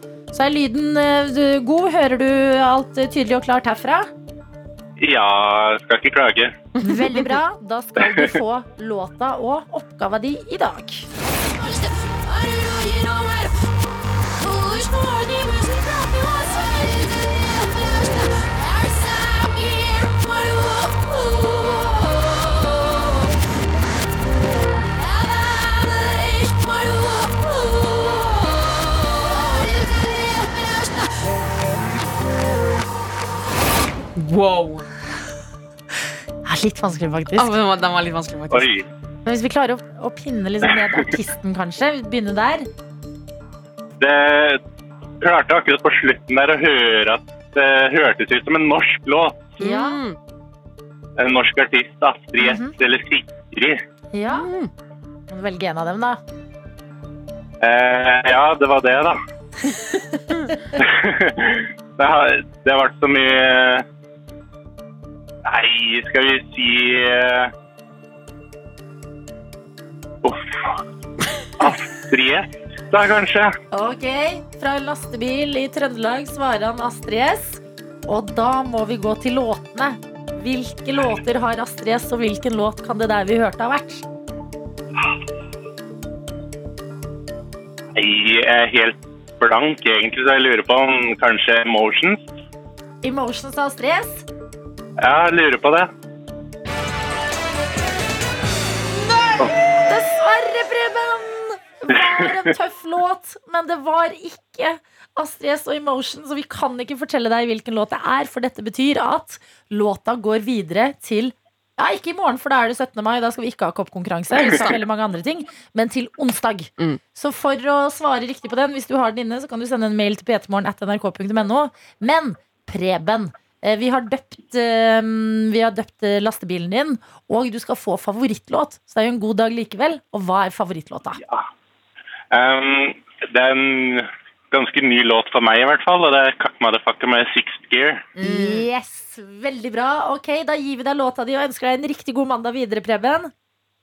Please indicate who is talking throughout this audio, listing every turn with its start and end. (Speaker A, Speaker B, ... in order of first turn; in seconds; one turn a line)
Speaker A: 0.3-4.1
Speaker B: 5.0-6.5
Speaker A: 6.8-11.1
Speaker C: 12.6-13.4
Speaker C: 14.6-15.5
Speaker C: 34.1-34.9
Speaker A: 36.4-37.5
Speaker C: 37.4-38.7
Speaker B: 38.5-38.9
Speaker A: 39.2-42.7
Speaker B: 44.0-44.6
Speaker B: 45.2-49.6
Speaker A: 49.6-50.0
Speaker C: 49.6-50.1
Speaker B: 51.2-53.8
Speaker A: 52.4-52.7
Speaker A: 54.1-54.5
Speaker C: 54.3-54.7
Speaker A: 55.3-56.2
Speaker B: 57.6-59.2
Speaker B: 60.8-63.8
Speaker B: 65.4-67.5
Speaker B: 70.2-70.8
Speaker B: 71.6-73.5
Speaker A: 73.7-84.0
Speaker B: 88.0-92.2
Speaker A: 93.0-94.2
Speaker B: 95.0-95.9
Speaker A: 99.1-131.2
Speaker C: 114.5-114.8
Speaker B: 132.3-138.1
Speaker A: 138.2-143.3
Speaker C: 138.2-138.6